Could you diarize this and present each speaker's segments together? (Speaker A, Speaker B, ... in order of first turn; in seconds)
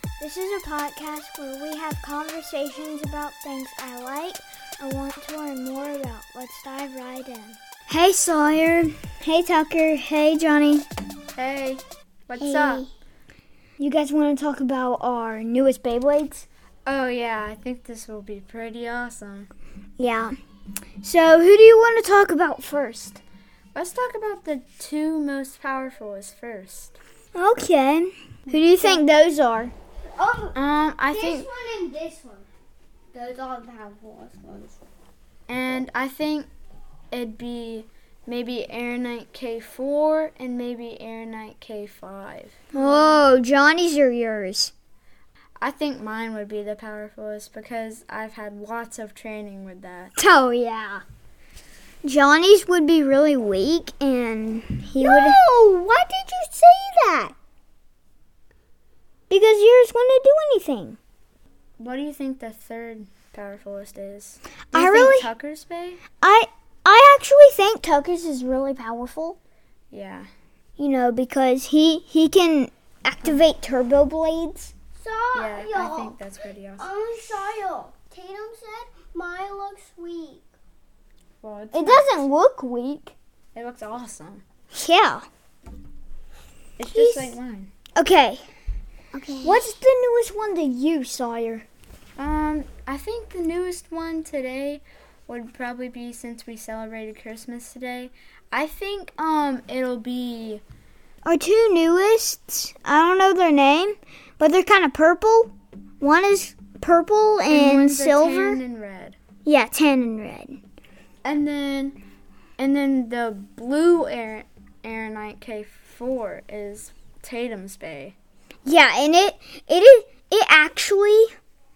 Speaker A: 0.2-10.9, 12.4-12.8, 13.8-16.5, 20.0-20.3, 21.0-23.2, 27.4-29.7, 42.7-44.7, 50.2-51.0, 52.0-55.4, 59.3-61.0, 64.7-65.3, 66.2-69.4, 70.8-74.7, 81.7-83.2, 84.7-85.3, 86.9-87.3, 88.0-88.5, 89.4-91.7, 101.2-108.6, 109.5-110.6, 118.7-121.3
Speaker B: 11.4-12.9, 16.9-19.5, 23.7-27.0, 28.5-29.0, 30.5-31.5, 35.5-36.5, 37.1-43.2, 45.6-50.1, 61.8-66.0, 69.9-70.3, 75.3-76.9, 81.4-82.2, 83.5-84.4, 86.8-87.7, 92.2-100.6, 107.5-109.2, 111.2-112.0, 112.6-118.2
Speaker C: 30.2-30.6, 31.1-32.5, 33.1-34.8, 55.0-57.3, 75.0-76.1, 76.8-80.4, 89.1-89.7